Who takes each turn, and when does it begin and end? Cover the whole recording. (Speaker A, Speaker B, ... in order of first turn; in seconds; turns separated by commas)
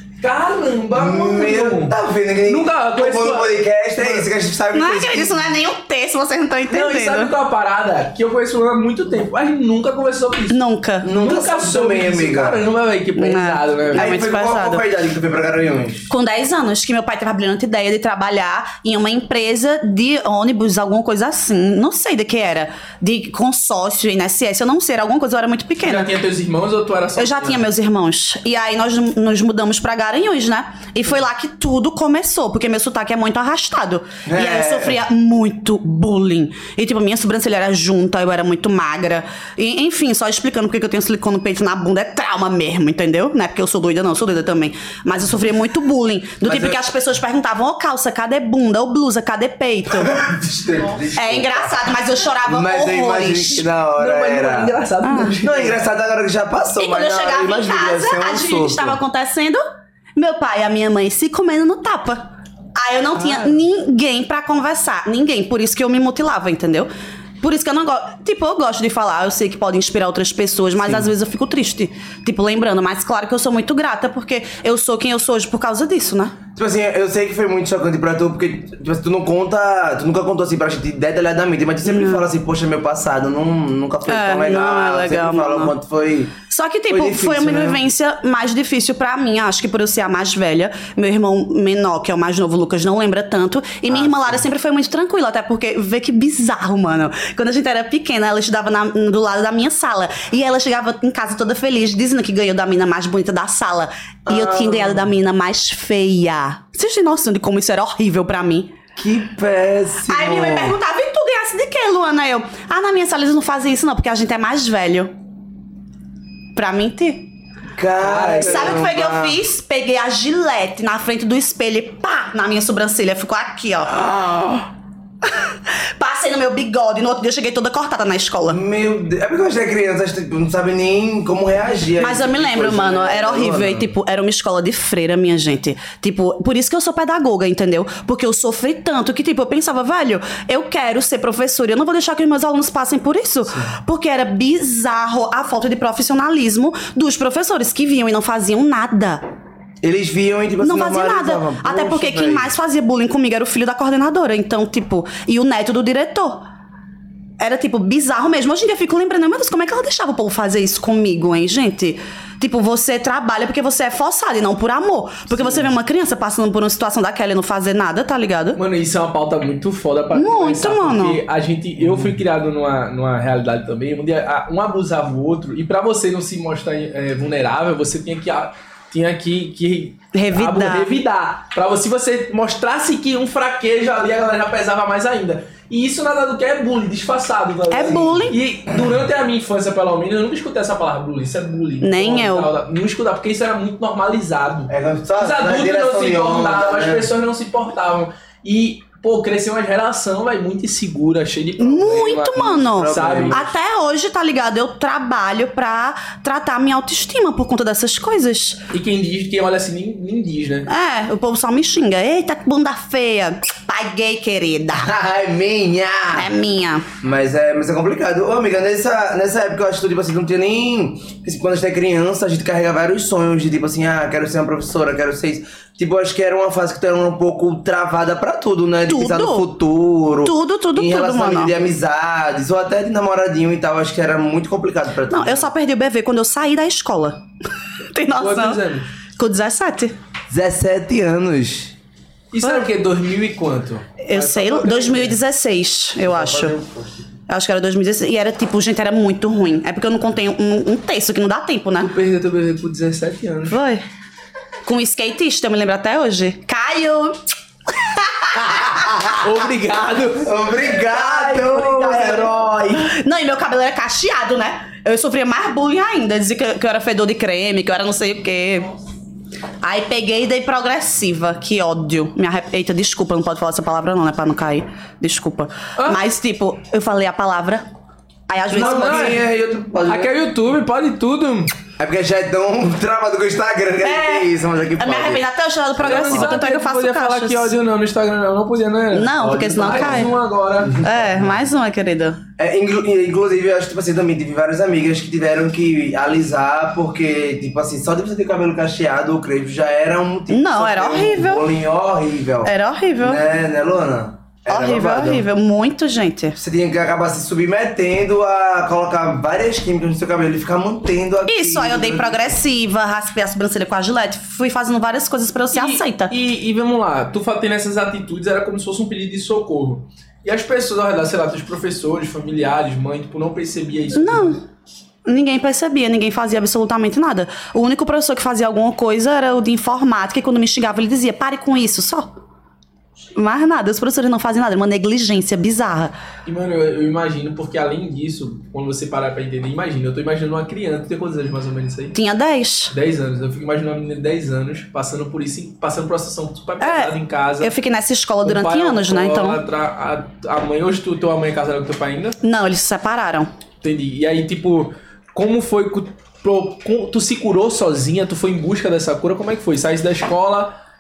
Speaker A: 0.2-1.9, Speaker B: 0.9-5.5, Speaker A: 2.5-4.2, Speaker C: 4.7-7.3, Speaker A: 6.7-10.6, Speaker C: 10.5-11.1, Speaker B: 11.0-12.6, Speaker A: 11.1-14.2, Speaker C: 13.2-14.8, Speaker B: 13.9-16.1, Speaker C: 16.1-26.1, Speaker A: 25.8-27.6, Speaker C: 27.1-50.2, Speaker B: 34.2-35.0, Speaker B: 46.4-46.8, Speaker B: 49.9-51.8, Speaker C: 51.1-53.7, Speaker B: 52.5-54.7, Speaker A: 54.0-55.8, Speaker C: 55.0-55.4, Speaker B: 55.4-59.0, Speaker C: 56.8-59.6, Speaker C: 60.1-66.9, Speaker C: 67.4-76.4, Speaker B: 70.8-71.1, Speaker B: 76.5-86.3, Speaker C: 81.8-82.2, Speaker C: 84.1-85.7, Speaker C: 86.5-108.7, Speaker B: 86.9-87.8, Speaker B: 93.9-94.4, Speaker B: 104.3-105.1, Speaker B: 109.0-110.8, Speaker C: 110.1-115.1, Speaker C: 116.5-117.3, Speaker B: 117.8-119.4, Speaker A: 118.0-118.8, Speaker C: 118.3-124.6, Speaker C: 125.2-128.6, Speaker B: 128.5-133.9, Speaker C: 132.0-149.2, Speaker B: 149.8-152.5, Speaker C: 150.6-156.4, Speaker C: 157.4-168.6, Speaker A: 165.3-165.7, Speaker A: 168.6-203.5, Speaker C: 170.1-171.2, Speaker C: 180.1-180.9, Speaker C: 187.7-188.4, Speaker C: 191.8-192.5, Speaker B: 194.7-197.1, Speaker C: 201.6-208.6, Speaker B: 202.7-203.5, Speaker A: 208.7-210.7, Speaker C: 210.7-214.9, Speaker B: 214.7-216.3, Speaker C: 216.1-216.9, Speaker B: 217.0-235.5, Speaker C: 228.9-229.4, Speaker C: 230.2-231.5, Speaker C: 235.1-237.2, Speaker C: 237.9-238.6, Speaker A: 238.1-238.9, Speaker C: 239.2-239.9, Speaker B: 240.3-241.7, Speaker A: 242.3-245.2, Speaker C: 242.4-242.7, Speaker C: 244.0-246.5, Speaker B: 246.0-247.1, Speaker C: 247.3-251.9, Speaker A: 251.8-253.6, Speaker C: 253.5-253.8, Speaker C: 254.6-257.2, Speaker C: 257.7-259.2, Speaker A: 258.4-262.8, Speaker B: 260.2-262.4, Speaker C: 261.1-268.7, Speaker C: 269.6-277.6, Speaker C: 278.3-279.2, Speaker B: 278.5-280.1, Speaker A: 278.5-279.2, Speaker A: 279.9-281.5, Speaker B: 281.8-285.2, Speaker C: 283.8-284.3, Speaker C: 284.8-287.5, Speaker B: 285.8-286.3, Speaker A: 285.8-290.8, Speaker C: 288.9-290.1, Speaker B: 289.7-290.1, Speaker B: 290.6-291.4, Speaker C: 290.7-292.2, Speaker B: 292.4-305.2, Speaker C: 300.3-301.4, Speaker C: 302.4-303.2, Speaker C: 304.5-306.4, Speaker B: 306.4-312.4, Speaker C: 311.3-316.1, Speaker A: 315.5-324.4, Speaker C: 323.9-324.4, Speaker C: 325.1-332.1, Speaker C: 333.1-335.9, Speaker A: 336.2-342.0, Speaker C: 341.9-342.7, Speaker A: 342.7-347.5, Speaker C: 346.6-349.4, Speaker A: 348.2-352.2, Speaker C: 352.2-353.3, Speaker A: 353.6-360.6